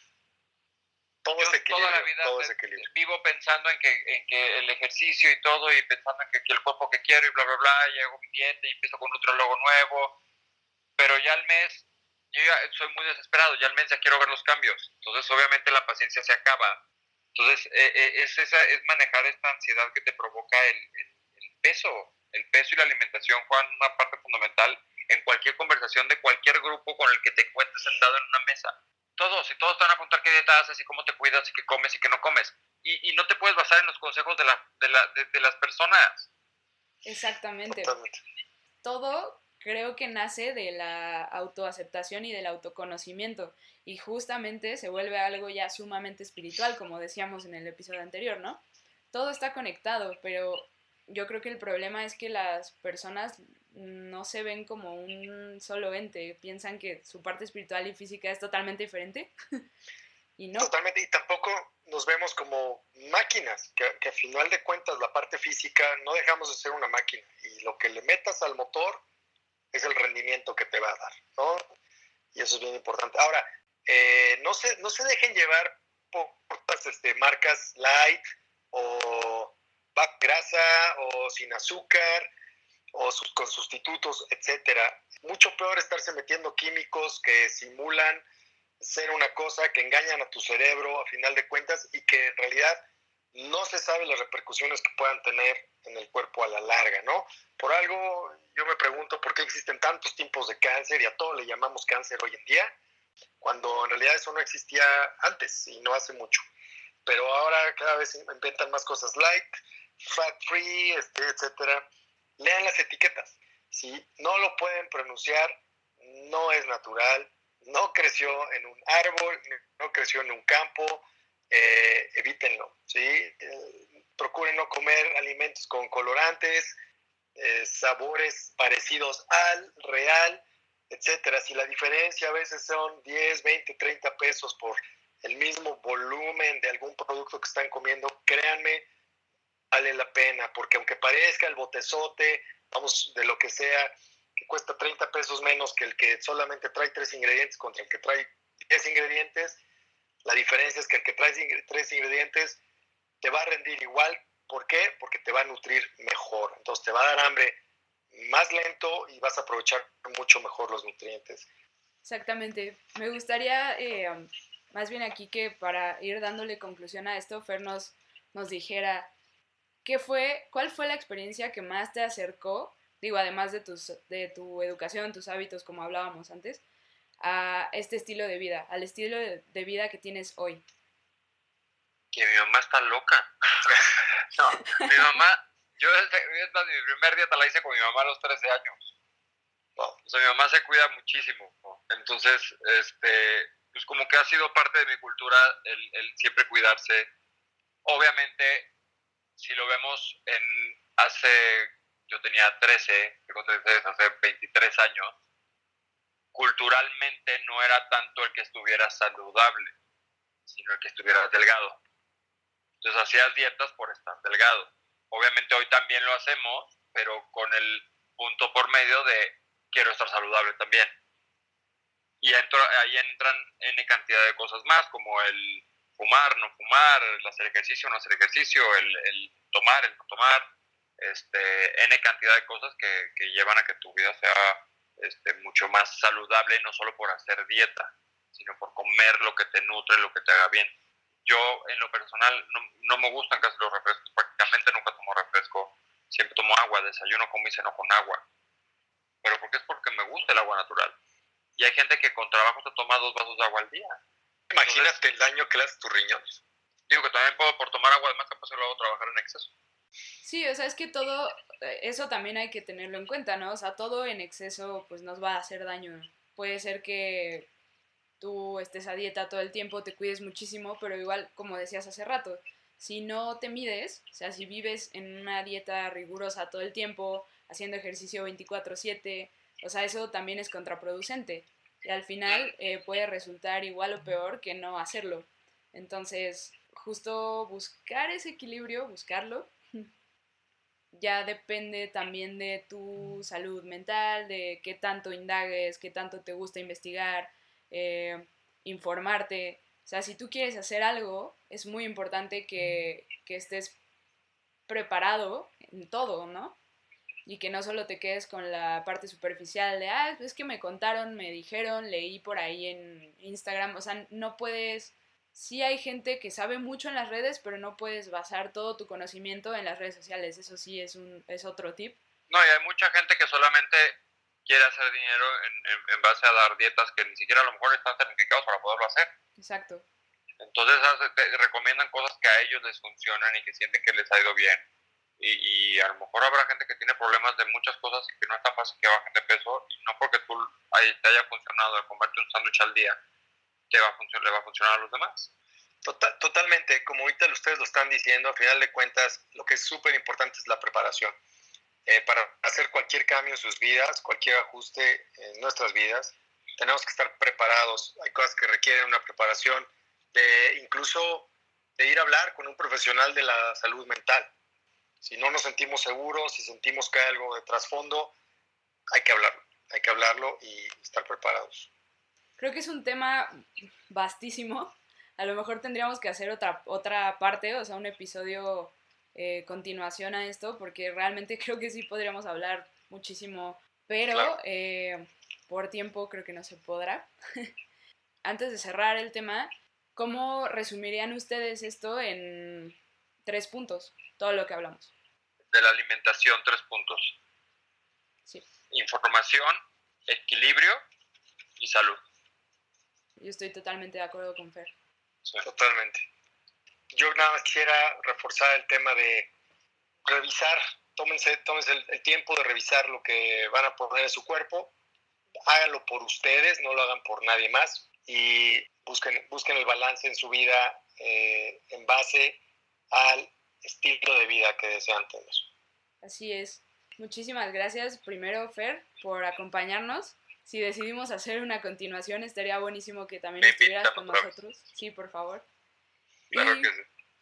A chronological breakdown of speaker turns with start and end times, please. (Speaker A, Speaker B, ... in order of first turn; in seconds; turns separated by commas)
Speaker A: 1.2-2.9, Speaker B: 1.4-10.2, Speaker B: 11.0-16.8, Speaker B: 17.4-36.3, Speaker C: 37.0-37.9, Speaker A: 37.7-38.2, Speaker C: 38.8-59.3, Speaker C: 60.4-60.7, Speaker A: 60.6-69.0, Speaker A: 69.7-71.6, Speaker A: 72.3-82.3, Speaker A: 82.9-88.2, Speaker A: 88.8-92.8, Speaker A: 93.3-102.7, Speaker A: 103.4-106.4, Speaker A: 107.0-126.8, Speaker A: 127.4-138.9, Speaker A: 139.7-149.6, Speaker A: 150.2-152.6, Speaker A: 153.2-157.6, Speaker A: 158.1-161.5, Speaker C: 162.0-169.1, Speaker C: 169.8-176.6, Speaker C: 177.2-180.6, Speaker B: 182.1-188.9, Speaker B: 190.1-197.1, Speaker B: 197.8-198.7, Speaker B: 199.4-205.1, Speaker B: 206.3-209.7, Speaker B: 210.5-211.8, Speaker B: 212.8-220.9, Speaker B: 222.2-230.4, Speaker B: 231.0-240.7, Speaker B: 241.2-248.2, Speaker B: 249.2-250.9, Speaker B: 251.6-254.0, Speaker A: 254.5-256.4, Speaker B: 254.7-255.0, Speaker B: 256.9-259.5, Speaker C: 260.2-267.5, Speaker C: 268.2-289.9, Speaker C: 290.9-303.8, Speaker C: 304.7-306.6, Speaker C: 307.3-322.0, Speaker B: 322.3-329.1, Speaker C: 329.4-329.9, Speaker B: 330.4-334.6, Speaker B: 335.2-343.0, Speaker B: 343.7-345.3, Speaker A: 345.9-351.1, Speaker A: 351.9-364.3, Speaker A: 365.0-368.1, Speaker A: 368.9-371.7, Speaker C: 372.4-387.5, Speaker C: 388.2-394.9, Speaker B: 395.5-397.2, Speaker B: 398.7-400.8, Speaker B: 401.6-402.0, Speaker C: 403.2-404.7, Speaker A: 405.4-406.1, Speaker A: 406.9-409.3, Speaker A: 410.1-414.7, Speaker A: 415.5-422.4, Speaker A: 422.9-425.5, Speaker C: 426.0-435.5, Speaker B: 433.4-434.3, Speaker C: 436.3-436.7, Speaker B: 436.3-436.9